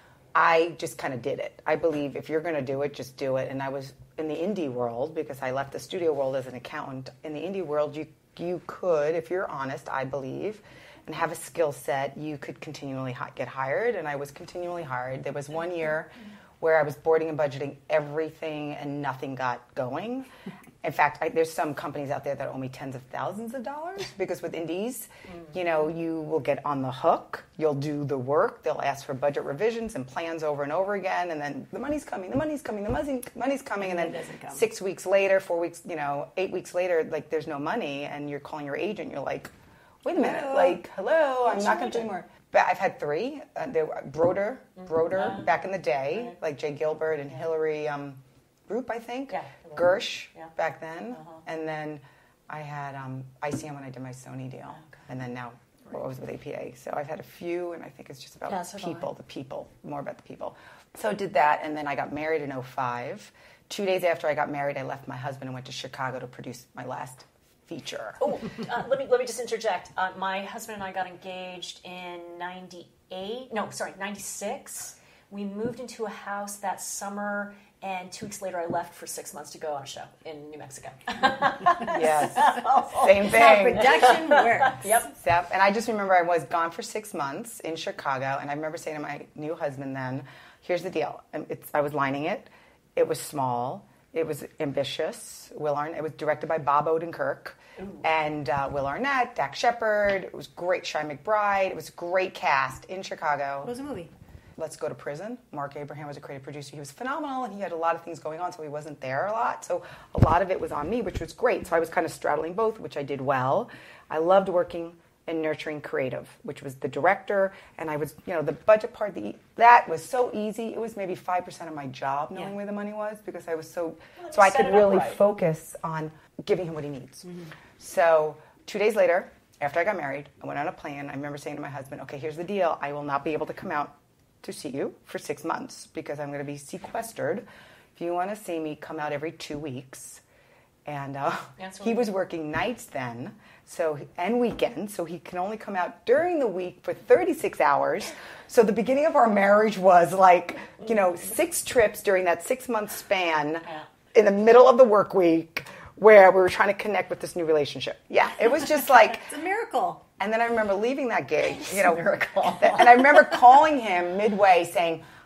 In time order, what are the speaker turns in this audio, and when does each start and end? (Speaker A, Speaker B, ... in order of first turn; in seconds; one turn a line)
Speaker A: 0.3-20.3
Speaker A: 20.8-39.5
Speaker B: 33.8-34.7
Speaker A: 40.0-68.2
Speaker B: 40.1-40.8
Speaker B: 41.5-42.0
Speaker C: 44.8-45.5
Speaker C: 49.3-50.5
Speaker C: 51.1-51.4
Speaker C: 58.5-59.1
Speaker C: 68.2-85.1
Speaker A: 81.8-84.1
Speaker B: 83.1-84.9
Speaker A: 85.2-103.7
Speaker C: 97.8-98.0
Speaker B: 103.6-104.1
Speaker A: 104.6-140.2
Speaker C: 124.2-125.2
Speaker A: 140.8-159.3
Speaker C: 141.6-142.1
Speaker B: 159.1-160.0
Speaker A: 160.2-165.0
Speaker C: 161.4-163.4